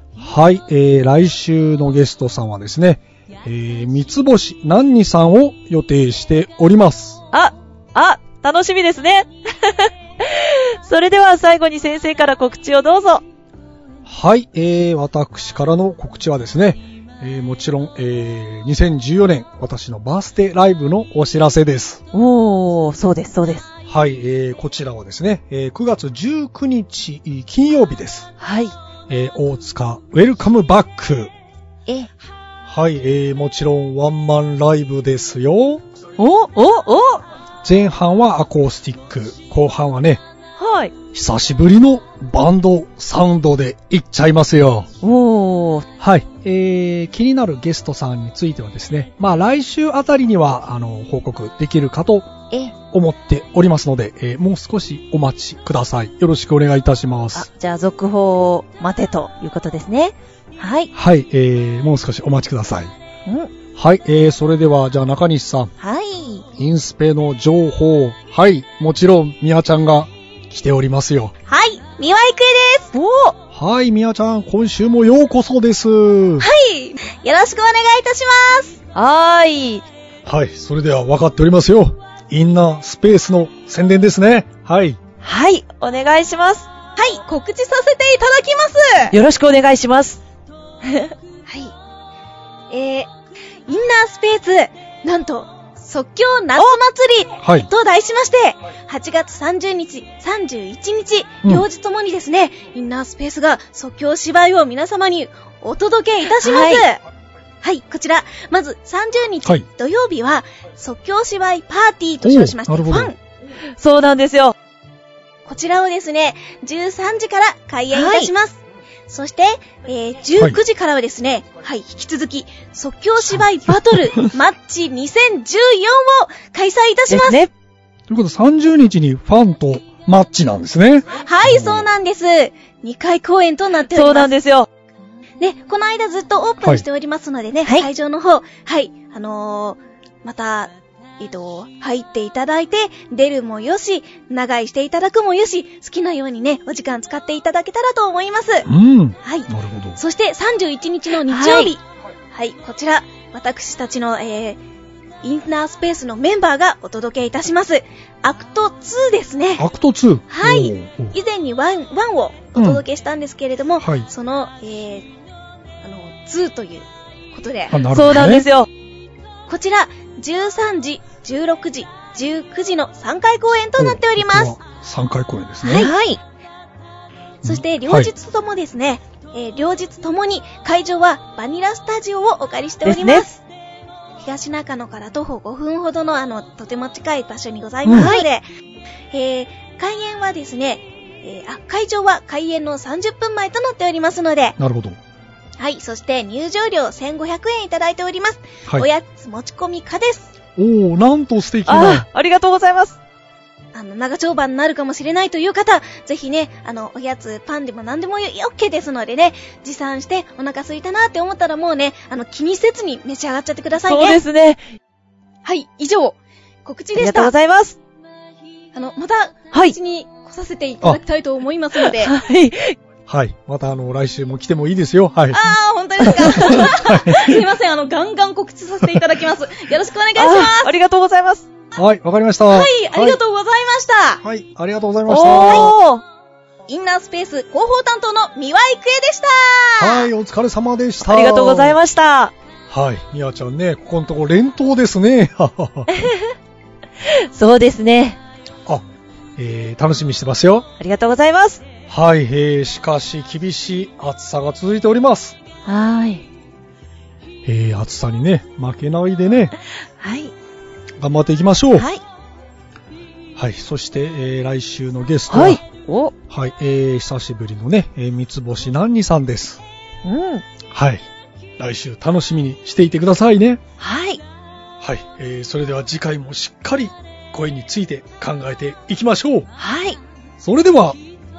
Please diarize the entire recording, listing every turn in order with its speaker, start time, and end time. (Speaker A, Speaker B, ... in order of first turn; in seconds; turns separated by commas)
Speaker A: 0.2-7.2, Speaker B: 7.3-13.2, Speaker A: 14.1-22.0, Speaker B: 22.1-23.7, Speaker A: 23.9-28.3, Speaker B: 28.4-28.7, Speaker A: 29.1-31.3, Speaker A: 32.6-35.8, Speaker B: 36.2-37.2, Speaker A: 37.6-40.2, Speaker B: 40.6-40.9, Speaker A: 41.1-44.9, Speaker B: 45.0-45.9, Speaker A: 46.0-52.4, Speaker B: 52.5-52.8, Speaker A: 52.9-57.5, Speaker B: 57.3-60.9, Speaker A: 60.9-62.9, Speaker B: 63.2-63.5, Speaker A: 63.7-65.7, Speaker B: 65.8-66.5, Speaker A: 66.5-71.3, Speaker C: 71.5-72.9, Speaker B: 72.9-73.3, Speaker A: 73.5-76.5, Speaker C: 76.4-78.8, Speaker B: 78.9-79.8, Speaker A: 80.2-85.0, Speaker B: 85.2-86.7, Speaker C: 87.0-89.2, Speaker B: 89.1-90.2, Speaker B: 90.8-91.1, Speaker C: 91.5-91.7, Speaker C: 92.7-93.1, Speaker C: 93.7-107.0, Speaker A: 97.4-97.7, Speaker B: 106.3-106.8, Speaker C: 107.6-113.2, Speaker A: 112.2-113.1, Speaker B: 113.7-114.5, Speaker C: 115.5-127.5, Speaker B: 117.9-118.3, Speaker A: 123.2-124.3, Speaker B: 127.1-127.5, Speaker A: 128.1-131.8, Speaker C: 131.1-134.3, Speaker B: 133.9-134.7, Speaker C: 135.4-148.7, Speaker B: 137.6-137.9, Speaker A: 148.6-150.0, Speaker C: 149.2-154.6, Speaker B: 151.1-151.7, Speaker C: 155.2-159.6, Speaker A: 159.6-161.2, Speaker C: 160.3-165.1, Speaker A: 162.6-162.8, Speaker A: 163.8-164.1, Speaker C: 165.8-167.8, Speaker A: 167.7-168.5, Speaker B: 167.9-168.7, Speaker C: 169.5-174.6, Speaker A: 173.8-175.9, Speaker C: 175.6-175.9, Speaker B: 175.7-176.2, Speaker C: 177.4-183.4, Speaker A: 177.4-178.1, Speaker B: 182.8-183.2, Speaker C: 184.2-188.4, Speaker A: 187.8-188.2, Speaker B: 187.9-188.2, Speaker C: 189.1-194.6, Speaker A: 194.6-195.0, Speaker C: 195.6-200.3, Speaker A: 200.5-202.1, Speaker B: 201.7-203.0, Speaker C: 203.7-214.2, Speaker B: 213.9-214.6, Speaker C: 215.4-217.3, Speaker B: 216.9-217.8, Speaker C: 218.7-222.1, Speaker B: 221.8-222.7, Speaker A: 223.1-227.4, Speaker C: 225.3-230.8, Speaker B: 226.2-226.6, Speaker B: 230.2-231.4, Speaker A: 231.7-233.2, Speaker C: 232.5-234.2, Speaker A: 234.2-235.7, Speaker B: 235.1-236.0, Speaker C: 235.4-235.7, Speaker C: 236.7-240.1, Speaker A: 239.8-241.8, Speaker B: 241.0-242.3, Speaker A: 242.7-245.9, Speaker B: 245.9-246.3, Speaker B: 247.0-248.2, Speaker A: 248.7-250.7, Speaker B: 250.8-251.6, Speaker A: 251.9-255.4, Speaker B: 255.6-256.2, Speaker A: 257.4-259.5, Speaker B: 260.0-260.3, Speaker A: 261.0-261.9, Speaker B: 261.7-262.0, Speaker A: 263.3-265.6, Speaker B: 265.3-266.1, Speaker A: 266.3-269.6, Speaker B: 270.0-270.4, Speaker A: 270.7-271.1, Speaker A: 271.6-273.6, Speaker B: 273.8-274.2, Speaker A: 274.8-279.5, Speaker B: 279.6-280.0, Speaker A: 280.4-281.0